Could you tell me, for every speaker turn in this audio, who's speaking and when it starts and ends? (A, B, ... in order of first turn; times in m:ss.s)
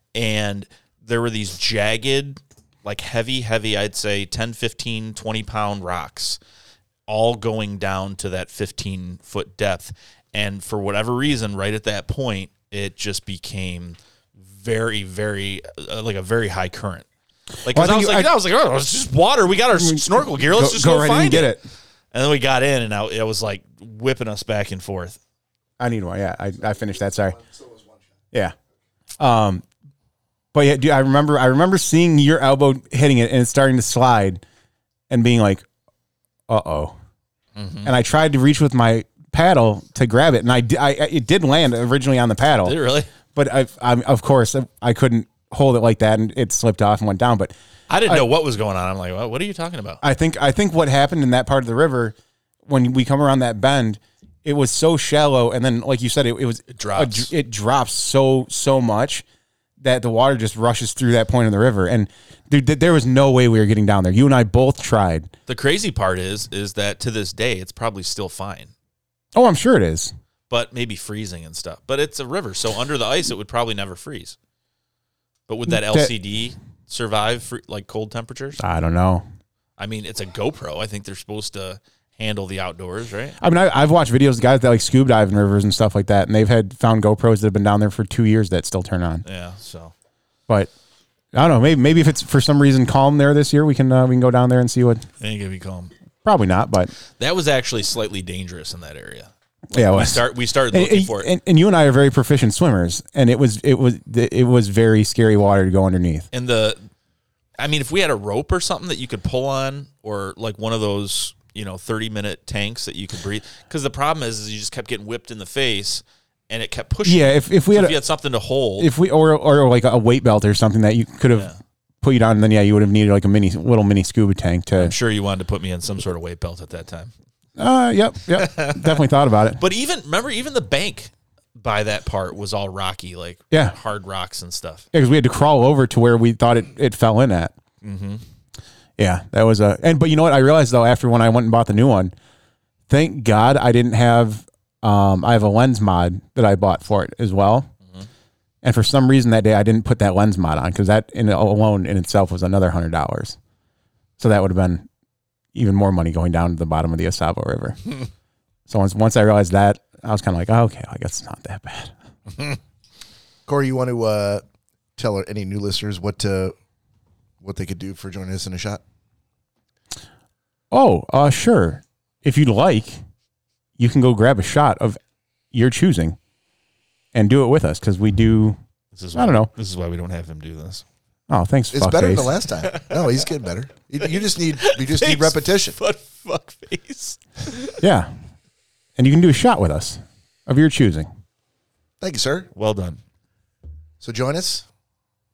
0:00.1-0:06.4 A
0:07.1-0:17.0 A
0:17.6-0:21.6 A
0:17.7-0:18.3 B
0:19.7-0:21.6 B
0:22.1-0:25.2 A
0:25.8-0:27.4 B
0:29.2-0:29.6 B
0:30.5-0:34.4 B
0:35.1-0:35.6 B
0:36.5-0:36.9 B
0:37.6-0:37.9 A
0:37.8-0:42.8 B
0:42.6-0:43.1 A
0:43.3-0:47.5 B
0:47.9-0:50.0 A
0:50.0-0:52.1 B
0:52.7-0:59.2 B
0:56.7-0:57.3 A
0:59.8-1:05.3 B
1:05.5-1:08.7 A
1:09.3-1:10.1 B
1:10.5-1:14.4 A
1:15.5-1:18.6 A
1:15.7-1:16.1 B
1:18.6-1:19.2 B
1:19.8-1:23.4 A
1:23.4-1:29.2 B
1:29.2-1:29.9 A
1:31.3-1:35.0 B
1:35.2-1:35.9 A
1:36.2-1:36.9 B
1:37.2-1:41.3 A
1:39.7-1:46.3 B
1:46.3-1:46.8 A
1:47.6-1:58.9 A
1:57.0-1:58.0 B
1:58.8-2:01.5 B
2:02.0-2:04.9 B
2:04.8-2:07.1 A
2:07.6-2:09.6 B
2:08.3-2:09.0 A
2:09.6-2:14.8 A
2:14.9-2:17.5 B
2:17.8-2:18.2 A
2:19.0-2:22.1 B
2:22.9-2:27.7 B
2:28.6-2:33.4 B
2:34.2-2:34.9 B
2:35.5-2:37.9 B
2:38.7-2:41.9 B
2:43.4-2:44.4 C
2:45.0-2:46.5 C
2:47.4-2:48.8 C
2:50.7-2:53.0 B
2:53.8-2:55.0 B
2:55.5-2:56.2 B
2:57.1-2:58.6 B
2:58.9-3:00.8 A
2:59.1-2:59.5 B
3:01.3-3:02.3 B
3:01.7-3:05.8 C
3:02.6-3:03.1 A
3:04.5-3:07.8 A
3:07.8-3:08.1 B
3:09.0-3:11.1 B
3:12.0-3:12.5 C
3:12.6-3:13.0 A
3:14.0-3:14.6 C